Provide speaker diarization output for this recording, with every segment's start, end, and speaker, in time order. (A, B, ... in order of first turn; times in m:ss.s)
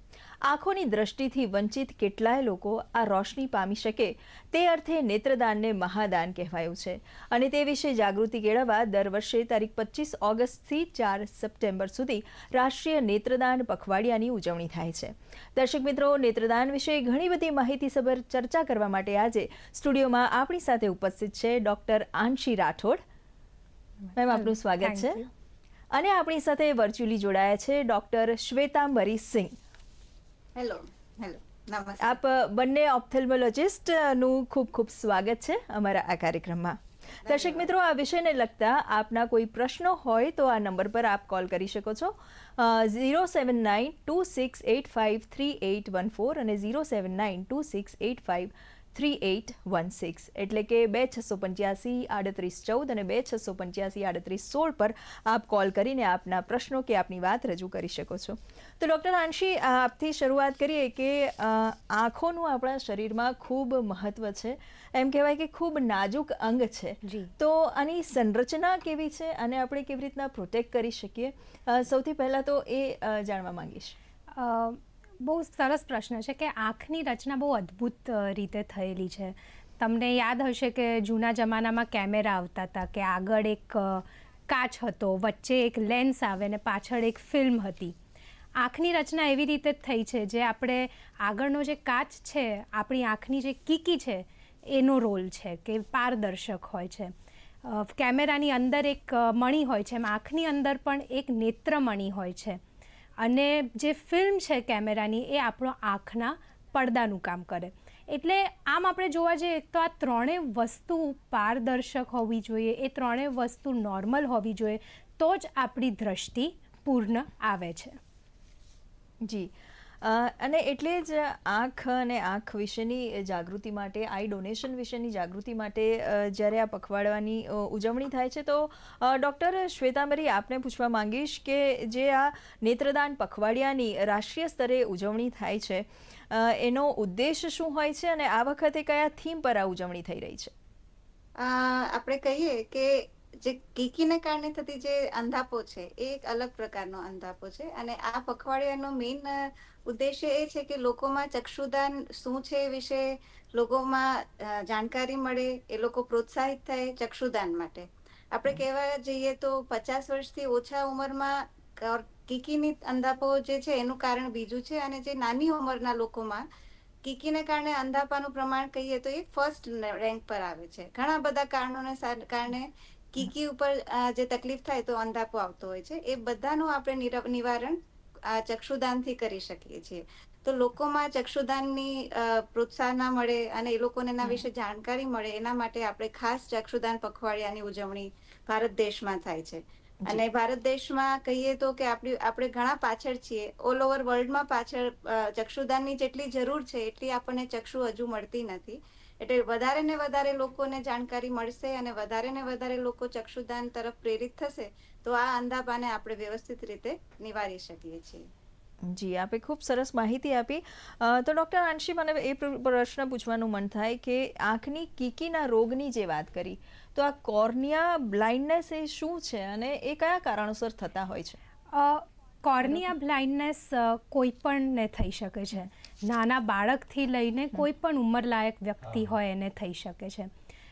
0:00.4-0:23.0 A
0:24.1-0:25.2 A
0:24.3-0:25.3 B
0:25.9-0:29.6 A
0:30.6-0:32.2 C
0:32.0-1:14.0 A
0:37.2-0:37.7 C
1:07.0-1:07.3 B
1:14.4-1:28.0 B
1:28.6-1:42.6 B
1:43.2-1:58.0 B
1:59.2-1:59.5 A
2:00.0-2:20.5 A
2:21.4-2:46.4 C
2:47.0-3:28.3 C
3:28.8-3:41.4 A
3:41.7-3:50.3 B